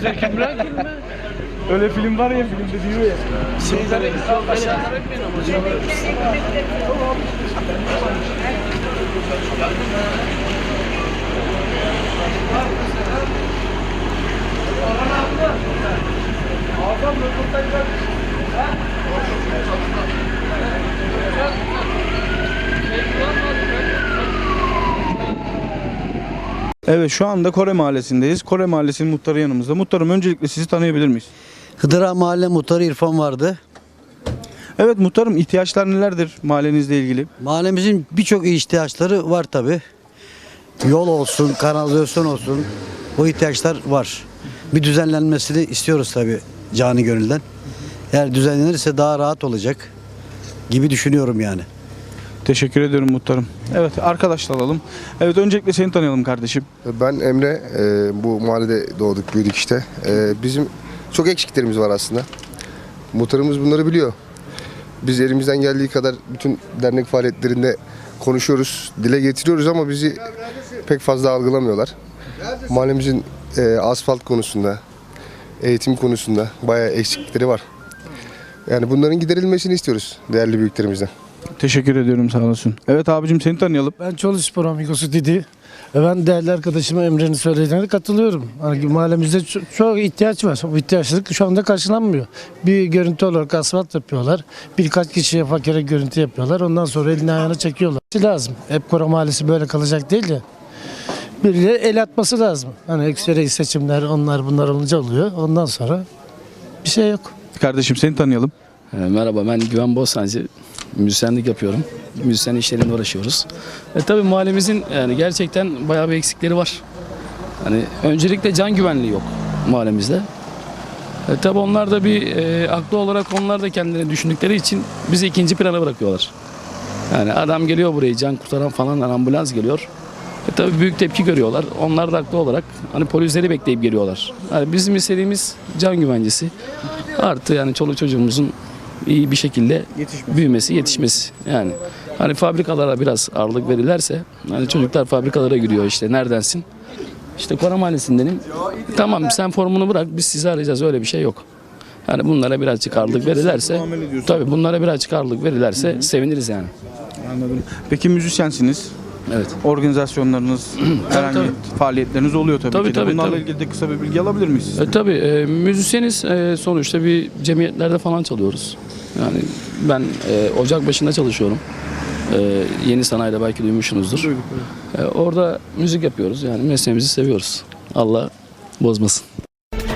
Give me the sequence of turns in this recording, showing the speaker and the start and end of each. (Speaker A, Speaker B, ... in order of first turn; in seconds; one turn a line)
Speaker A: 1.7-3.1
Speaker A: 26.9-31.3
Speaker B: 31.8-33.6
Speaker A: 34.8-37.3
Speaker B: 37.4-39.8
Speaker B: 40.8-47.4
Speaker B: 48.1-49.9
Speaker B: 50.7-51.6
Speaker A: 52.5-56.6
Speaker C: 56.8-62.3
Speaker C: 63.1-64.1
Speaker C: 65.0-70.3
Speaker C: 70.8-71.9
Speaker C: 72.7-74.8
Speaker C: 75.6-77.6
Speaker C: 78.7-81.1
Speaker A: 81.6-83.9
Speaker D: 84.0-100.4
Speaker D: 101.4-106.0
Speaker D: 106.8-107.3
Speaker A: 107.5-108.5
Speaker E: 108.9-116.8
Speaker E: 117.6-120.3
Speaker E: 121.3-126.3
Speaker E: 127.1-129.9
Speaker E: 130.5-136.5
Speaker E: 137.0-146.7
Speaker A: 139.9-140.4
Speaker E: 147.4-151.4
Speaker E: 152.1-156.7
Speaker A: 152.9-154.5
Speaker A: 155.8-156.1
Speaker A: 157.2-158.9
Speaker E: 159.3-159.6
Speaker A: 159.6-164.9
Speaker E: 160.9-161.5
Speaker E: 162.7-163.4
Speaker E: 164.7-171.6
Speaker E: 172.3-174.3
Speaker A: 174.2-174.6
Speaker E: 174.9-179.2